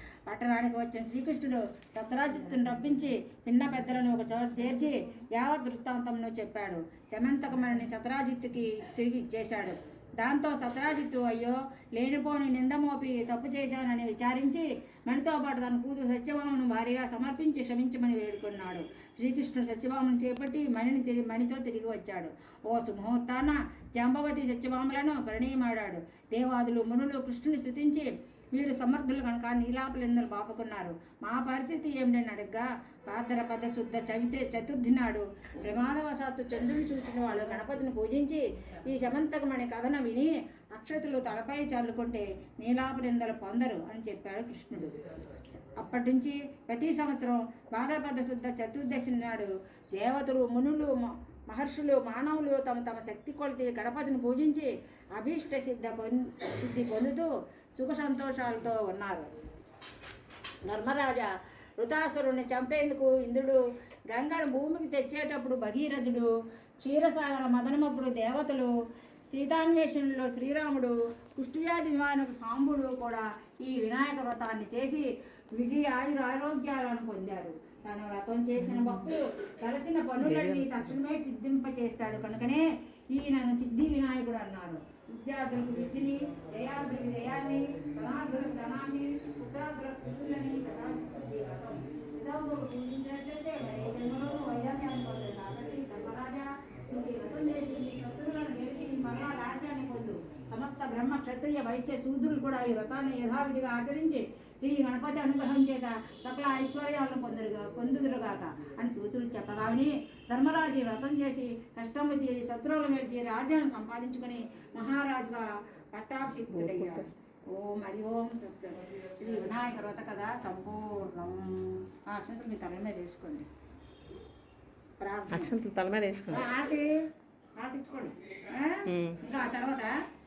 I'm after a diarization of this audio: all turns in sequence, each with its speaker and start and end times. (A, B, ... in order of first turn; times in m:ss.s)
0:00.3-0:59.3 A
1:00.6-1:08.7 A
1:09.3-2:03.5 A
1:20.2-1:20.9 B
1:56.5-1:57.1 B
2:05.0-2:05.5 A
2:05.3-2:06.5 B
2:06.3-2:06.9 A
2:07.6-2:10.0 A
2:08.9-2:09.2 B